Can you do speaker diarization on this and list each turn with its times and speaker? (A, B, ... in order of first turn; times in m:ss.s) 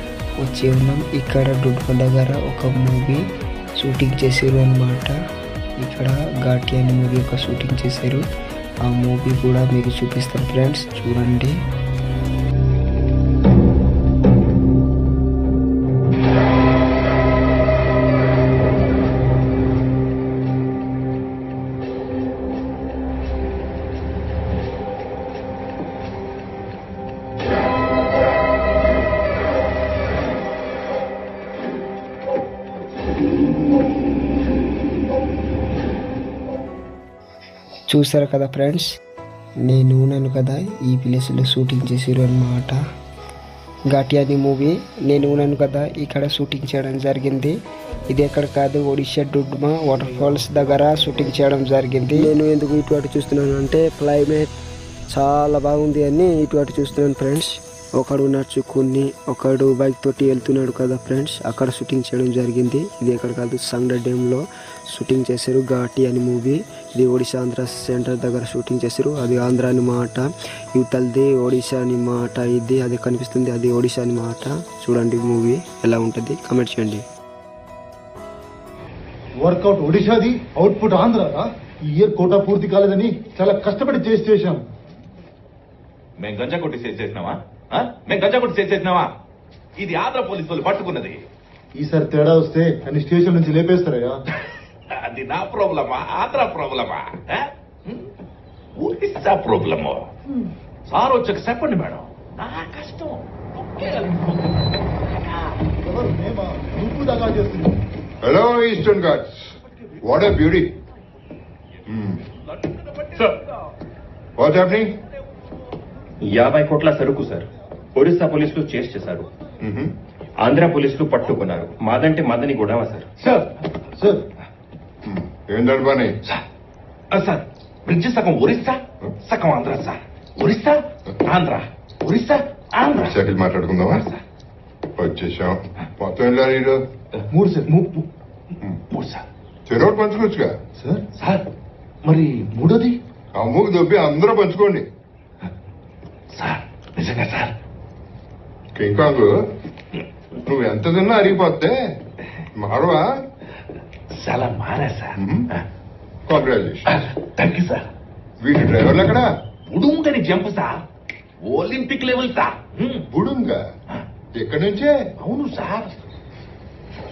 0:00.4-0:03.2 A
0:03.8-0:05.2 A
0:05.8-0:08.2 A
0:08.8-0:11.6 A
0:37.9-0:38.9 A
0:39.6-0:42.8 A
0:43.9-0:47.6 A
0:48.1-0:54.5 A
0:55.1-1:17.0 A
1:19.4-1:24.6 B
1:26.2-1:29.1 C
1:29.8-1:31.2 C
1:31.7-1:34.2 B
1:34.9-1:38.1 C
1:38.8-1:40.1 C
1:40.9-1:45.6 C
1:45.8-1:47.8 B
1:48.2-1:50.7 D
1:51.9-1:52.2 D
1:52.6-1:53.4 C
1:54.4-1:55.0 D
1:56.2-1:59.3 E
1:59.6-1:59.9 D
2:00.4-2:03.1 E
2:03.2-2:04.2 B
2:05.0-2:06.1 D
2:07.1-2:13.2 C
2:12.9-2:14.1 D
2:13.9-2:14.2 C
2:15.0-2:16.8 D
2:17.3-2:17.7 B
2:17.7-2:19.2 C
2:19.7-2:20.6 D
2:20.8-2:21.0 B
2:21.2-2:21.5 C
2:22.0-2:23.0 C
2:23.4-2:24.8 D
2:26.3-2:27.5 C
2:28.8-2:29.4 D
2:30.4-2:32.0 D
2:32.6-2:33.1 D
2:34.1-2:35.6 C
2:35.2-2:35.5 D
2:36.3-2:37.0 D
2:36.9-2:37.9 C
2:38.4-2:39.3 D
2:39.7-2:40.8 C
2:41.4-2:43.1 C
2:43.1-2:43.7 D
2:44.4-2:45.0 D
2:45.2-2:46.1 C